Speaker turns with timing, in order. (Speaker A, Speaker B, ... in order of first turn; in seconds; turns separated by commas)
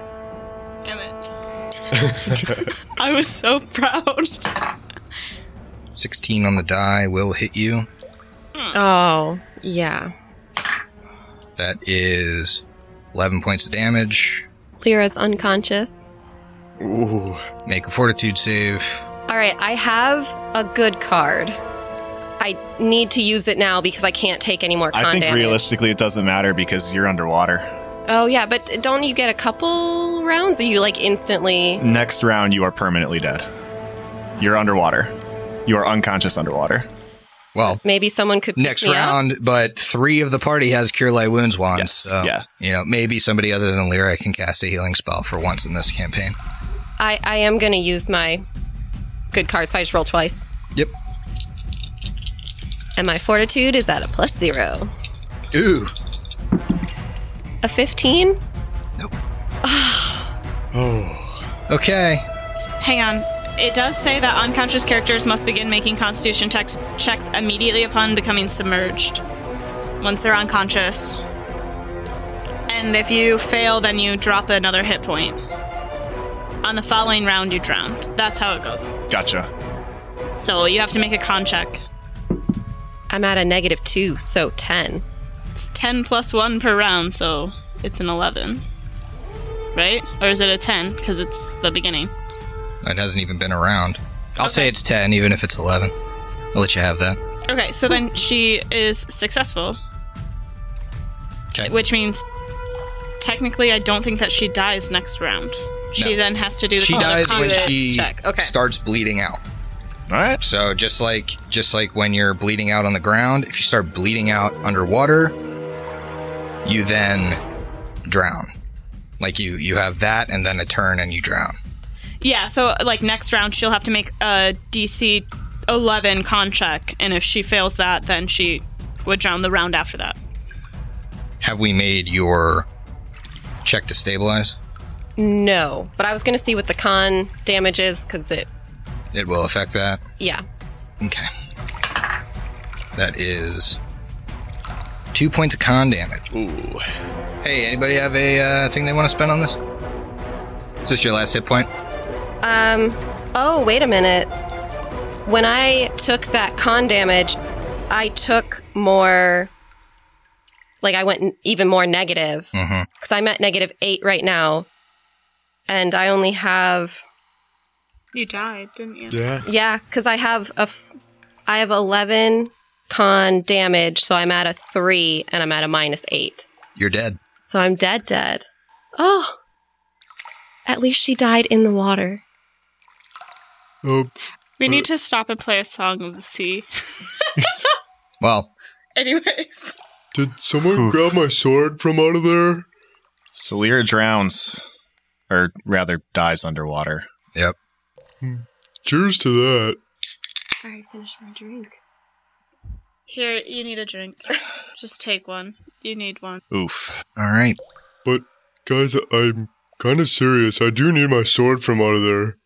Speaker A: 0.9-1.2, Speaker B: 1.9-2.7, Speaker A: 2.2-4.6, Speaker C: 5.9-7.9, Speaker D: 8.7-10.1, Speaker C: 11.6-14.5, Speaker D: 14.8-16.1, Speaker B: 16.8-17.4, Speaker C: 17.7-19.0, Speaker D: 19.3-21.6, Speaker D: 22.4-25.7, Speaker E: 24.9-27.7, Speaker D: 28.1-31.8, Speaker E: 31.8-33.5, Speaker E: 34.4-35.1, Speaker E: 35.7-36.9, Speaker C: 37.5-37.8, Speaker D: 37.6-39.2, Speaker C: 38.6-46.4, Speaker E: 41.7-42.5, Speaker D: 47.0-48.5, Speaker D: 49.3-50.5, Speaker D: 53.0-54.9, Speaker C: 55.5-55.9, Speaker D: 57.6-58.4, Speaker D: 59.7-60.2, Speaker B: 60.7-61.4, Speaker C: 61.7-62.2, Speaker A: 62.8-69.2, Speaker A: 70.0-71.2, Speaker A: 72.7-75.4, Speaker A: 76.6-79.0, Speaker E: 79.1-79.5, Speaker A: 80.4-81.8, Speaker D: 83.1-85.0, Speaker A: 85.6-88.6, Speaker A: 89.8-92.1, Speaker C: 92.8-95.9, Speaker A: 94.4-94.7, Speaker C: 96.5-97.2, Speaker A: 97.5-99.8, Speaker A: 101.6-102.2, Speaker A: 103.2-107.7, Speaker C: 106.8-109.4, Speaker D: 106.9-108.5, Speaker E: 110.1-110.4, Speaker C: 110.4-115.4, Speaker C: 116.6-117.4, Speaker C: 118.1-118.5, Speaker C: 119.2-121.6, Speaker A: 122.2-130.2, Speaker C: 131.4-132.7, Speaker C: 133.6-134.6, Speaker D: 135.2-138.5, Speaker C: 139.1-140.0, Speaker D: 140.2-140.4, Speaker C: 141.0-141.3, Speaker C: 143.0-143.8, Speaker C: 145.1-146.3, Speaker B: 146.3-146.8, Speaker C: 147.4-149.6, Speaker C: 150.8-151.7, Speaker D: 152.4-154.3, Speaker D: 155.3-157.4, Speaker D: 157.9-159.5, Speaker D: 160.8-164.7, Speaker C: 162.5-162.9, Speaker D: 165.7-167.0, Speaker A: 168.1-169.2, Speaker B: 169.1-169.5, Speaker D: 169.4-170.9, Speaker D: 171.5-176.5, Speaker C: 176.8-177.2, Speaker D: 177.4-178.4, Speaker D: 179.0-179.4, Speaker D: 180.7-182.2, Speaker B: 183.8-184.1, Speaker A: 184.6-187.7, Speaker E: 187.4-187.7, Speaker C: 188.2-188.5, Speaker A: 189.0-189.8, Speaker B: 190.1-192.7, Speaker E: 190.7-191.1, Speaker E: 193.3-194.6, Speaker E: 195.3-197.1, Speaker B: 198.2-199.8, Speaker D: 200.6-201.8, Speaker A: 203.1-206.4, Speaker E: 206.5-207.0, Speaker C: 207.2-207.6, Speaker B: 208.1-212.4